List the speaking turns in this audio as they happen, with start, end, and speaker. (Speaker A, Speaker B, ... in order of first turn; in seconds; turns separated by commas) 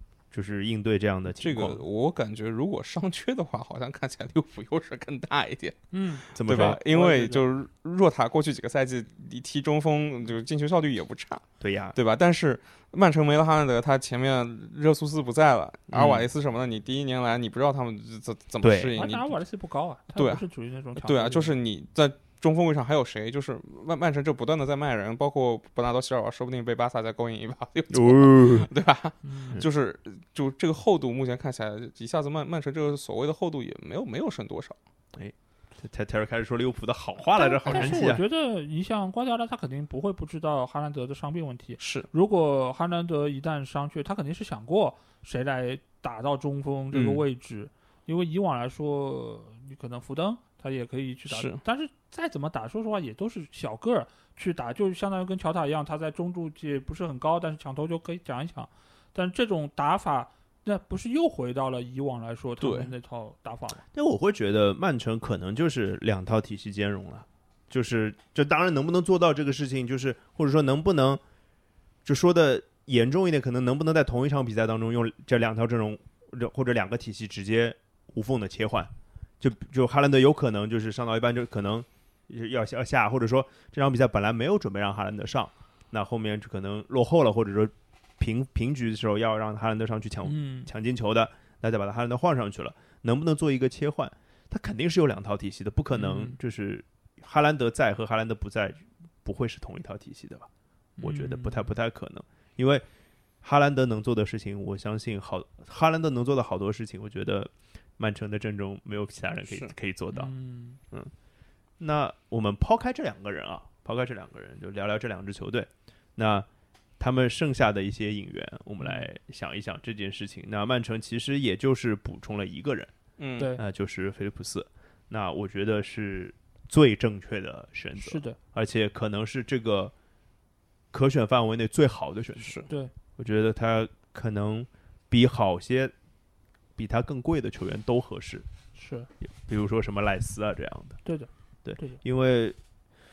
Speaker A: 0.3-1.8, Speaker B: 1.4-19.4, Speaker C: 5.9-7.4, Speaker A: 6.3-6.8, Speaker A: 11.6-11.9, Speaker A: 15.9-16.3, Speaker A: 18.6-18.9, Speaker C: 18.9-21.5, Speaker B: 20.1-34.8, Speaker A: 27.9-28.7, Speaker C: 29.2-29.6, Speaker A: 35.1-38.2, Speaker C: 37.4-63.8, Speaker B: 37.6-38.1, Speaker B: 41.8-42.1, Speaker B: 46.9-47.2, Speaker B: 51.3-51.6, Speaker B: 62.6-62.9, Speaker A: 63.9-71.2, Speaker A: 72.0-100.5, Speaker C: 90.2-90.7, Speaker C: 95.9-96.4, Speaker C: 101.0-101.6, Speaker A: 101.0-102.8, Speaker A: 103.4-110.3, Speaker C: 110.1-110.8, Speaker A: 111.8-116.5, Speaker A: 117.0-122.9, Speaker C: 118.8-119.0, Speaker B: 123.2-123.5, Speaker A: 123.6-129.9, Speaker C: 128.0-128.4, Speaker A: 130.9-132.6, Speaker B: 132.4-132.7, Speaker A: 133.2-135.9, Speaker A: 136.8-138.4, Speaker C: 138.7-139.1, Speaker A: 139.2-141.0, Speaker C: 141.1-142.0, Speaker A: 141.6-142.6